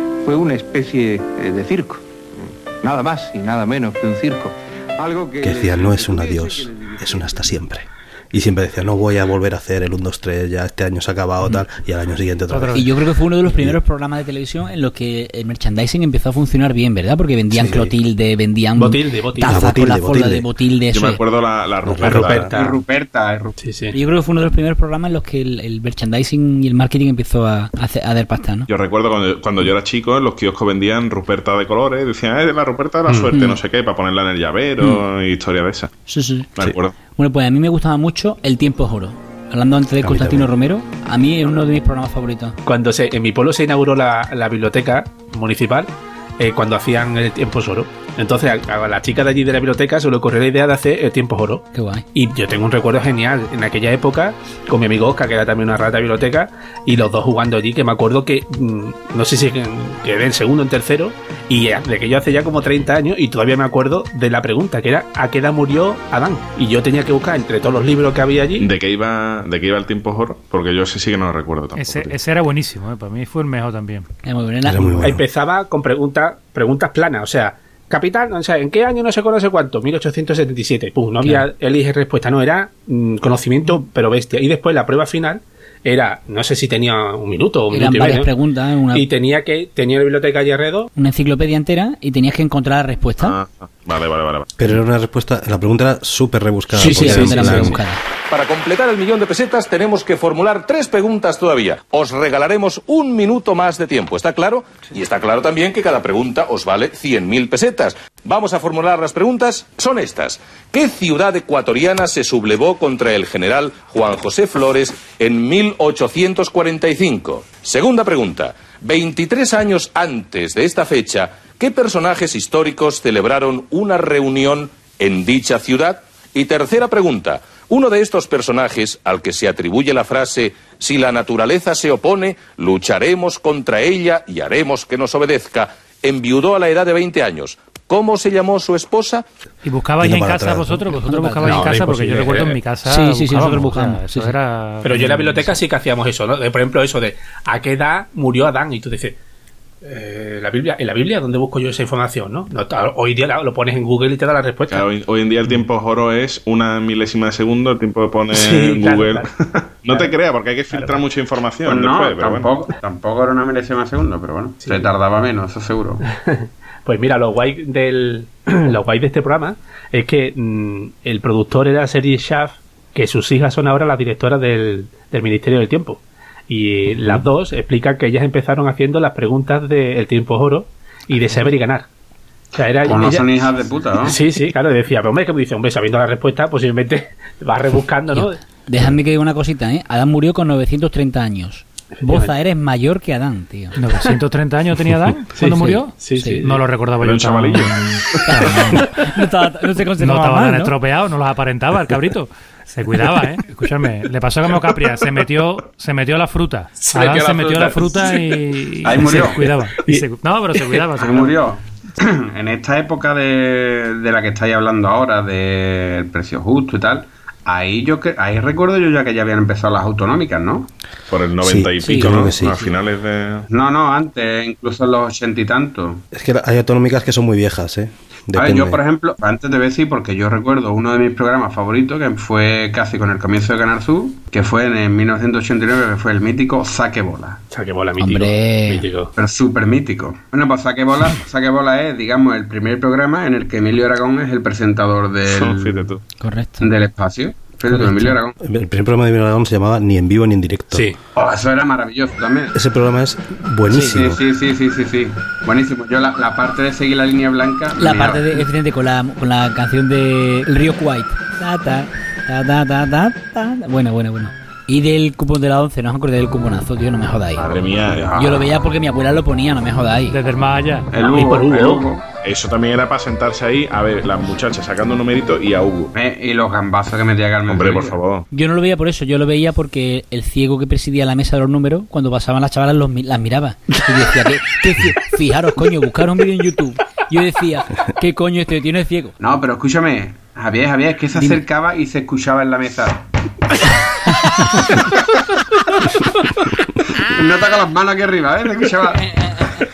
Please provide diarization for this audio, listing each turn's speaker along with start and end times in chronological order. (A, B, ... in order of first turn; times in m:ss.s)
0:00.2-0:07.5 A
0:05.4-0:12.9 B
0:12.5-0:12.8 C
0:12.7-0:21.2 D
0:13.5-0:13.8 B
0:17.5-0:17.9 B
0:18.8-0:19.6 E
0:19.5-0:20.4 B
0:20.9-0:22.5 F
0:21.8-0:22.5 B
0:22.0-0:22.8 E
0:22.5-0:23.6 G
0:23.6-0:23.9 E
0:23.9-0:28.7 D
0:28.7-0:35.9 F
0:36.1-0:36.5 D
0:36.6-0:36.9 F
0:37.2-0:42.6 D
0:40.0-0:40.5 B
0:42.6-1:08.7 E
0:51.7-0:52.0 D
1:08.6-1:12.2 F
1:11.7-1:14.1 C
1:14.2-1:15.2 D
1:14.6-1:15.2 B
1:15.0-1:28.3 E
1:21.2-1:21.5 D
1:27.7-1:29.1 D
1:28.9-1:30.9 E
1:31.0-1:33.4 D
1:33.2-1:34.5 F
1:34.6-1:37.8 B
1:36.8-1:38.0 D
1:36.8-1:37.8 E
1:38.3-2:19.2 H
2:19.6-2:25.6 C
2:20.0-2:20.9 B
2:21.0-2:21.7 D
2:21.4-2:22.6 E
2:22.8-2:24.3 D
2:24.8-2:29.2 E
2:29.8-2:34.8 E
2:34.7-2:42.5 F
2:38.3-2:39.3 E
2:40.7-2:41.0 E
2:41.6-2:46.0 G
2:46.1-3:01.9 E
3:02.5-3:03.5 E
3:02.8-3:04.2 G
3:04.0-3:08.4 E
3:08.1-3:13.8 D
3:12.0-3:12.3 E
3:13.8-3:18.9 C
3:15.4-3:16.6 E
3:15.5-3:16.4 D
3:17.0-3:18.5 F
3:17.9-3:20.7 D
3:20.0-3:31.4 C
3:26.8-3:28.2 E
3:28.8-3:29.5 G
3:29.2-3:30.8 E
3:31.0-3:40.7 G
3:41.1-3:43.5 F
3:41.4-3:42.6 B
3:41.8-3:42.4 D
3:43.5-3:46.0 G
3:46.1-3:48.8 B
3:48.3-3:57.4 G
3:57.5-3:59.1 E
3:58.0-3:58.8 D
3:59.2-4:05.9 G
4:05.2-4:06.0 F
4:06.2-4:06.7 D
4:06.6-4:08.3 G
4:07.7-4:08.2 D
4:08.4-4:10.8 B
4:10.7-4:11.0 E
4:11.2-4:12.5 G
4:12.5-4:14.2 B
4:13.8-4:18.5 G
4:17.8-4:27.4 D
4:27.4-4:28.1 F
4:27.4-4:28.5 G
4:28.1-4:30.2 D
4:30.1-4:30.9 C
4:30.9-4:32.0 G
4:31.0-4:31.9 E
4:32.2-4:35.9 F
4:35.9-4:38.0 G
4:37.5-4:38.2 F
4:38.3-4:49.1 D
4:49.2-4:53.0 G
4:51.2-4:51.4 D
4:56.9-4:59.4 G